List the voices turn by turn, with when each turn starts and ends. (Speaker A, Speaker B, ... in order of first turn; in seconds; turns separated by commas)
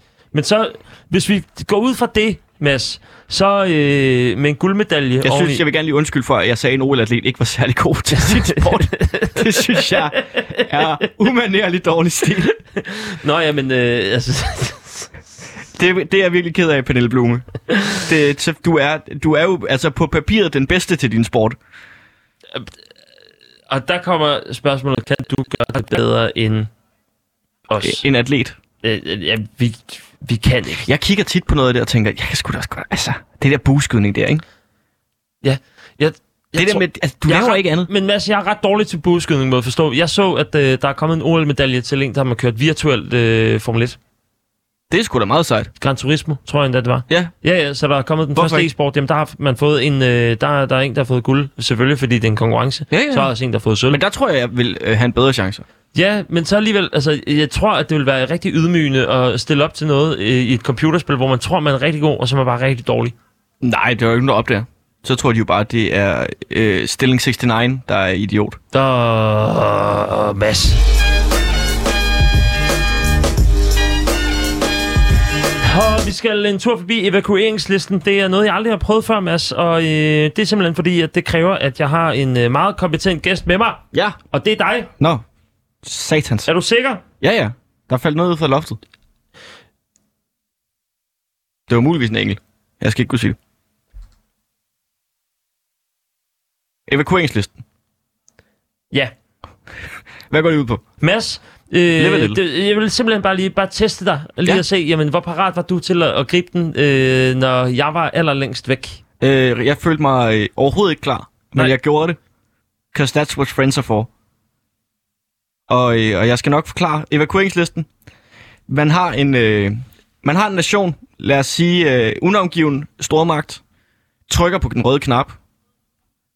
Speaker A: 0.3-5.6, Speaker B: 5.2-12.6, Speaker A: 8.2-10.6, Speaker A: 12.7-15.1, Speaker B: 15.7-21.6, Speaker A: 23.7-26.7, Speaker A: 27.7-28.0, Speaker B: 27.8-28.6, Speaker A: 28.8-30.9, Speaker B: 30.8-34.4, Speaker A: 35.4-44.0, Speaker B: 36.5-37.9, Speaker B: 44.9-45.7, Speaker A: 45.8-54.0, Speaker B: 48.3-48.7, Speaker B: 52.9-53.3, Speaker B: 53.9-55.6, Speaker A: 55.9-63.1, Speaker B: 63.6-68.6, Speaker A: 68.7-70.8, Speaker A: 75.6-84.9, Speaker B: 83.9-84.2, Speaker B: 85.8-86.5, Speaker A: 86.5-87.0, Speaker B: 87.2-88.8, Speaker B: 91.7-93.4, Speaker B: 96.9-97.6, Speaker B: 100.3-100.8, Speaker A: 101.0-109.0, Speaker B: 102.0-102.4, Speaker B: 109.2-112.2, Speaker B: 112.9-114.1, Speaker B: 115.7-117.9, Speaker B: 118.7-123.6, Speaker B: 124.3-125.3